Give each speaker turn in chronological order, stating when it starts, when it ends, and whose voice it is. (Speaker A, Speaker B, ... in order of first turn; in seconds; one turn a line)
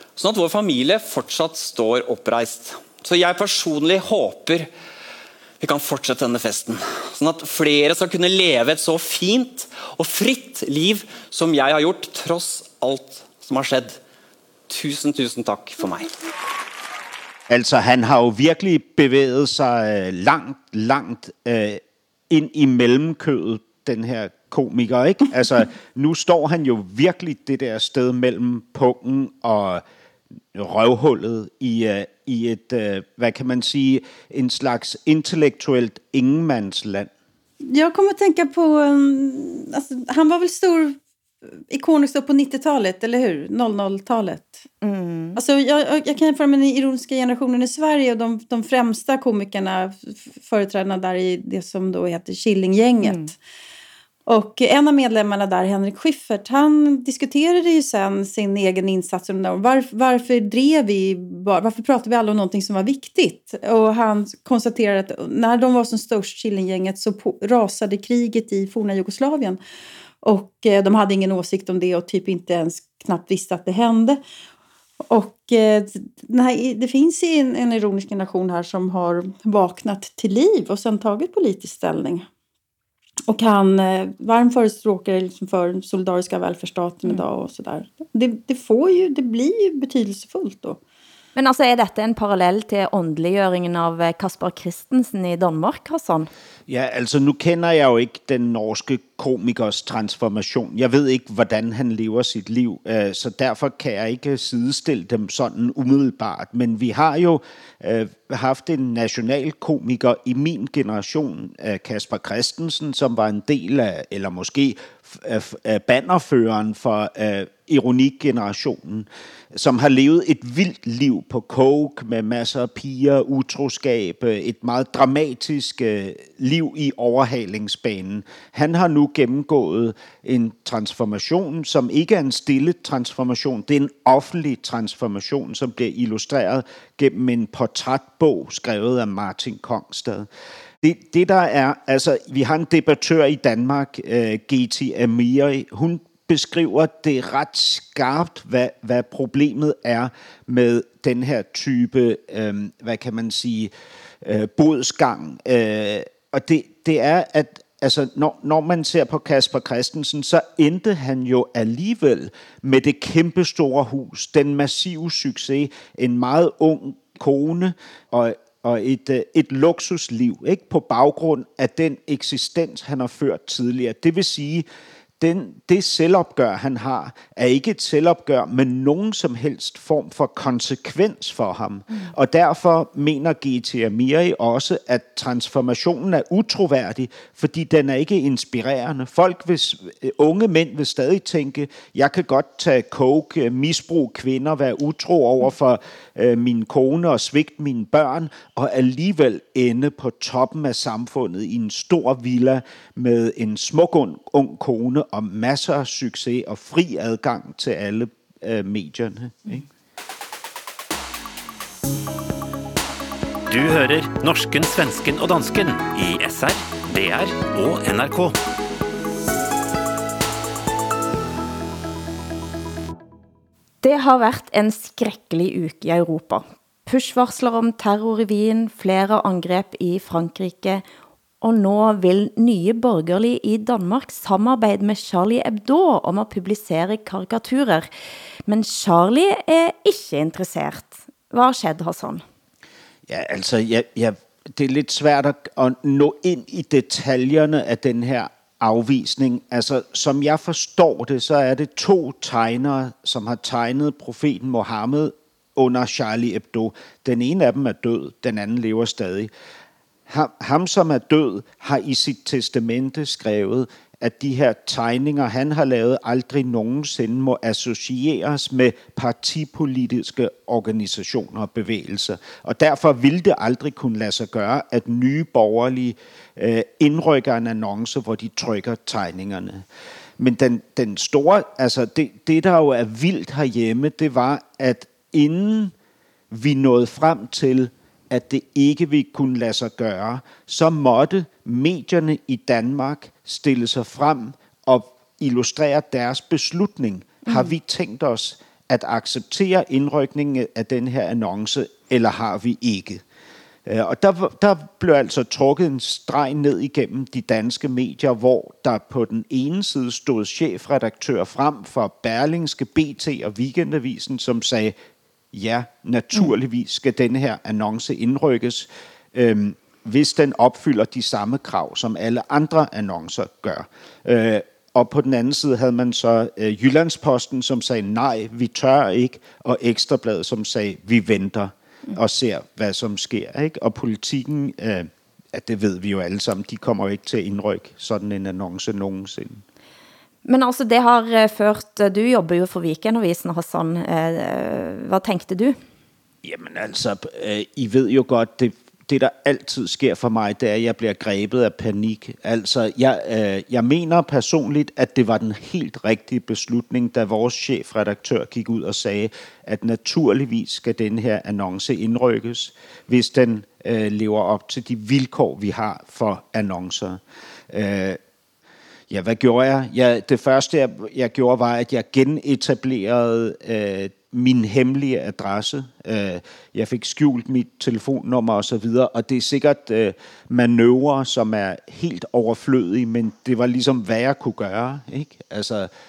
Speaker A: 0.1-4.7
Speaker A: 5.6-14.0
Speaker A: 14.7-16.1
Speaker B: 17.5-29.8
Speaker B: 30.5-37.1
Speaker C: 37.6-41.0
Speaker C: 41.7-44.6
Speaker D: 44.8-45.4
Speaker C: 45.4-53.3
Speaker D: 53.0-53.3
Speaker C: 54.3-69.6
Speaker C: 70.2-74.2
Speaker C: 75.1-82.3
Speaker C: 83.3-90.8
Speaker D: 91.3-96.3
Speaker B: 96.7-140.3
Speaker B: 140.8-153.7
Speaker B: 154.2-174.7
Speaker B: 175.2-209.6
Speaker E: 213.5-218.3
Speaker D: 223.8-230.8
Speaker D: 231.4-237.9
Speaker D: 238.5-242.2
Speaker B: 243.1-259.3
Speaker B: 260.1-279.6
Speaker B: 280.2-285.7
Speaker B: 286.3-303.0
Speaker B: 303.6-314.8
Speaker B: 315.3-339.4
Speaker D: 340.2-345.6
Speaker B: 346.2-368.0
Speaker B: 368.9-385.7